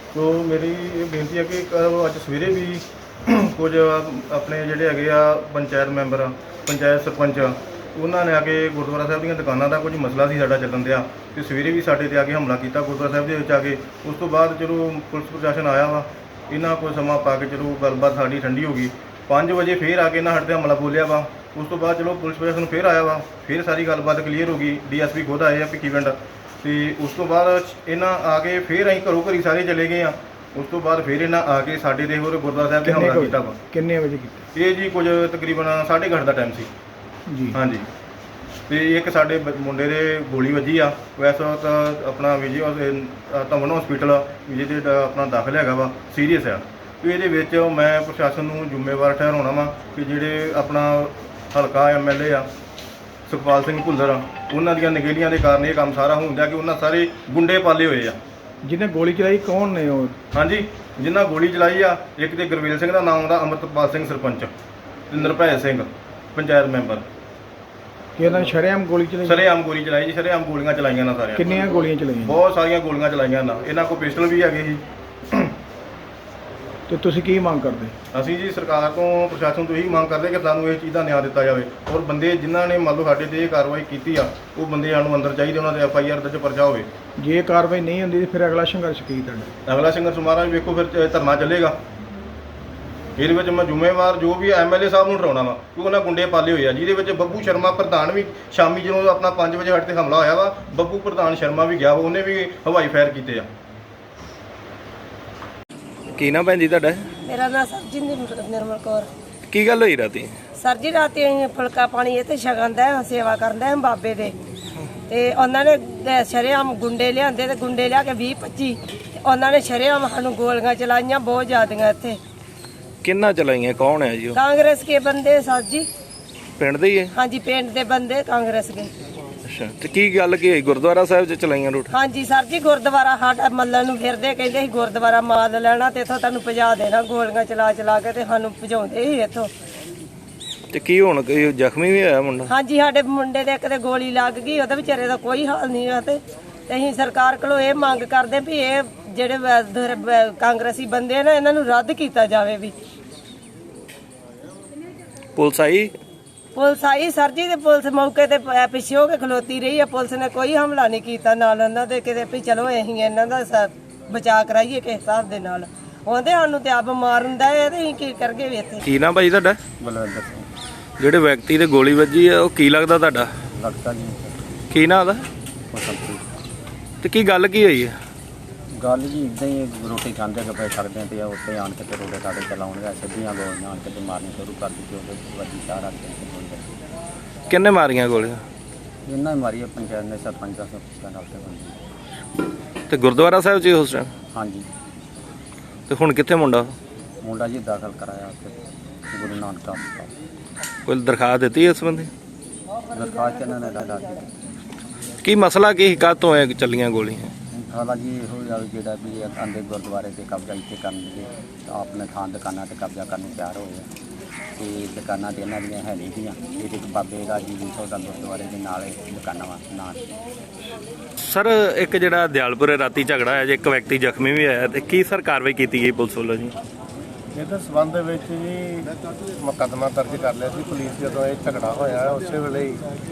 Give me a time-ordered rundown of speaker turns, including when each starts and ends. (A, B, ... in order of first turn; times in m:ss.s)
0:00.1-0:33.6 A
0:32.8-0:34.4 B
0:34.5-0:36.7 A
0:37.3-0:37.6 B
0:37.5-0:37.8 A
0:38.7-0:52.5 A
0:53.3-0:58.2 A
0:58.6-1:00.1 B
1:00.3-1:04.5 A
1:05.1-1:07.0 A
1:08.2-1:09.4 B
1:09.2-1:11.6 A
1:11.3-1:12.4 B
1:12.2-1:15.5 A
1:16.9-1:17.9 B
1:18.1-1:26.9 A
1:27.2-1:29.5 B
1:29.6-1:31.8 A
1:33.2-1:43.5 A
1:46.1-1:47.0 C
1:47.3-1:49.1 D
1:49.5-1:50.4 C
1:50.6-1:54.3 D
1:55.1-2:02.2 D
2:03.0-2:04.4 C
2:04.3-2:05.9 D
2:06.6-2:07.1 C
2:07.2-2:08.9 D
2:09.4-2:11.9 C
2:11.9-2:19.5 D
2:20.7-2:22.5 C
2:22.5-2:32.7 D
2:35.3-2:35.9 C
2:36.5-2:48.8 D
2:48.8-2:49.6 C
2:49.8-2:50.5 E
2:51.0-2:53.3 C
2:53.6-2:54.6 E
2:54.7-2:55.2 C
2:55.7-2:56.2 E
2:57.0-2:58.0 C
2:58.8-3:06.7 E
3:07.5-3:08.4 C
3:09.0-3:11.8 E
3:12.9-3:14.1 C
3:14.3-3:14.7 E
3:15.9-3:16.7 C
3:17.2-3:18.6 E
3:19.1-3:20.1 E
3:20.8-3:22.1 C
3:22.9-3:24.3 E
3:25.2-3:27.3 C
3:27.5-3:33.9 E
3:34.6-3:40.1 E
3:41.2-3:46.5 C
3:47.3-3:52.8 F